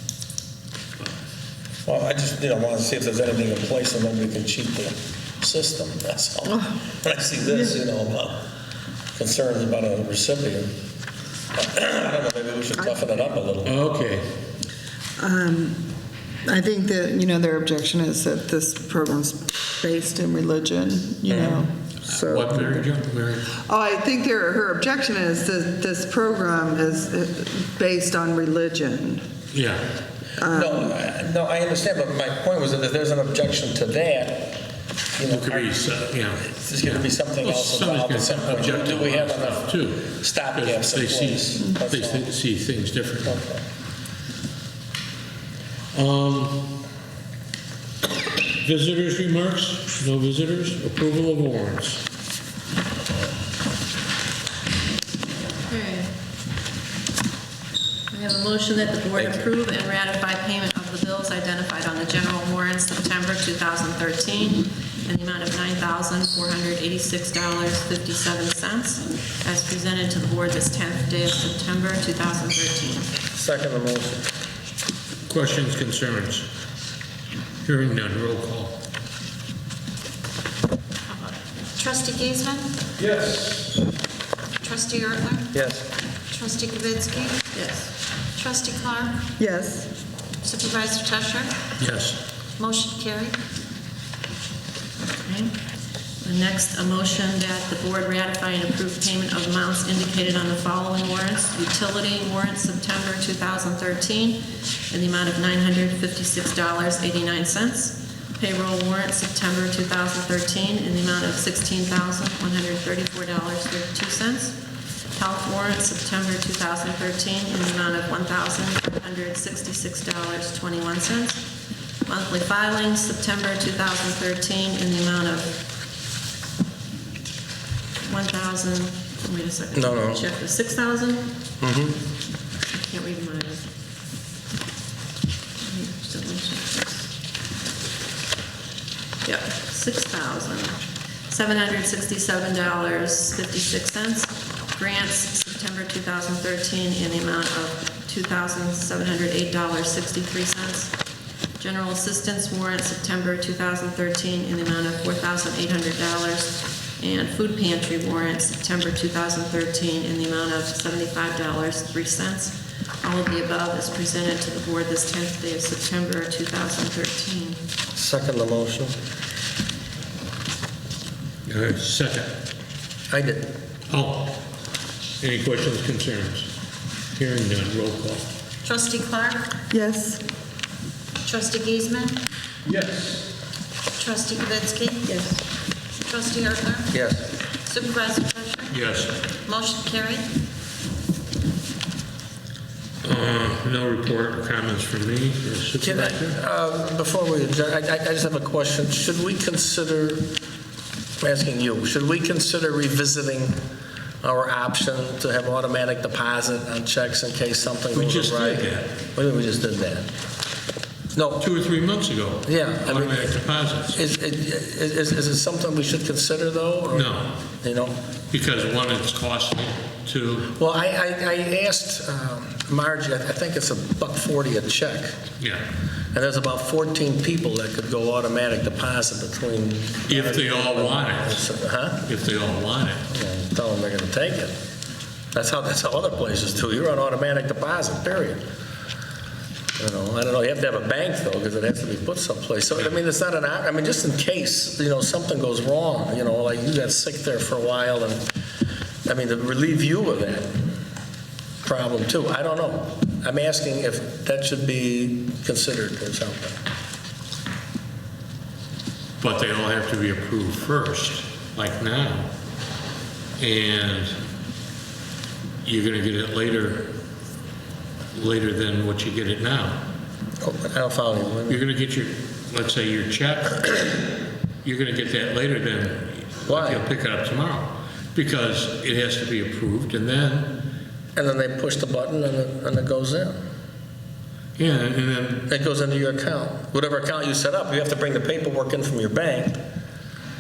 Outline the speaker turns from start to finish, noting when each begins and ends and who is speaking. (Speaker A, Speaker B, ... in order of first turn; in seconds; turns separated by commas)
Speaker A: 1.9-8.4, Speaker B: 6.5-6.7, Speaker B: 7.5-7.8, Speaker A: 9.2-10.7, Speaker A: 11.5-13.7, Speaker C: 13.6-14.3, Speaker B: 15.2-15.8, Speaker B: 16.4-22.9, Speaker C: 21.3-23.5, Speaker B: 23.7-29.3, Speaker C: 29.5-29.9, Speaker B: 30.4-30.9, Speaker A: 30.4-34.6, Speaker A: 35.1-35.7, Speaker C: 35.3-43.4, Speaker A: 36.5-42.3, Speaker A: 43.2-43.6, Speaker C: 45.9-46.7, Speaker C: 48.6-52.0, Speaker D: 55.7-56.1, Speaker D: 58.1-73.1, Speaker A: 59.2-59.4, Speaker A: 73.3-74.3, Speaker C: 75.3-76.5, Speaker C: 77.6-78.8, Speaker E: 81.1-82.7, Speaker C: 83.0-83.8, Speaker E: 84.6-85.5, Speaker A: 85.5-85.8, Speaker E: 86.3-87.5, Speaker D: 87.5-87.9, Speaker E: 88.4-89.3, Speaker B: 89.4-89.9, Speaker E: 90.4-91.6, Speaker C: 91.8-92.2, Speaker E: 92.6-93.4, Speaker D: 95.3-95.5, Speaker D: 96.2-114.6, Speaker D: 115.2-121.4, Speaker D: 122.1-125.5, Speaker D: 128.0-131.3, Speaker A: 129.8-130.2, Speaker A: 131.6-132.0, Speaker D: 132.7-133.6, Speaker D: 135.6-137.1, Speaker D: 139.2-150.9, Speaker D: 151.6-167.6, Speaker A: 167.9-168.9, Speaker C: 171.4-172.3, Speaker A: 173.1-173.5, Speaker C: 173.9-174.3, Speaker C: 175.2-176.5, Speaker C: 177.2-178.3, Speaker E: 178.6-179.6, Speaker B: 179.7-180.2, Speaker E: 181.2-182.2, Speaker C: 182.7-183.3, Speaker E: 184.0-185.2, Speaker E: 186.0-186.9, Speaker A: 186.9-187.3, Speaker E: 187.7-188.8, Speaker C: 188.7-189.1, Speaker E: 189.5-190.3, Speaker C: 193.0-196.4, Speaker A: 195.8-200.3, Speaker A: 201.2-203.6, Speaker A: 204.2-210.1, Speaker C: 207.9-208.9, Speaker A: 211.2-211.5, Speaker C: 211.4-214.0, Speaker A: 212.5-213.3, Speaker A: 213.9-217.9, Speaker C: 216.9-217.3, Speaker C: 218.3-220.5, Speaker A: 220.6-225.2, Speaker A: 226.1-232.1, Speaker C: 230.1-231.4, Speaker C: 232.1-233.0, Speaker A: 233.1-234.5, Speaker A: 235.3-238.4, Speaker A: 239.8-248.2, Speaker A: 249.1-250.6, Speaker A: 251.6-256.6, Speaker C: 259.2-262.3, Speaker C: 263.4-264.2, Speaker C: 265.6-266.9, Speaker C: 268.1-269.8, Speaker A: 270.4-271.6, Speaker C: 271.5-280.6, Speaker A: 276.5-276.8, Speaker A: 281.2-283.4, Speaker C: 284.6-285.5, Speaker A: 285.5-289.6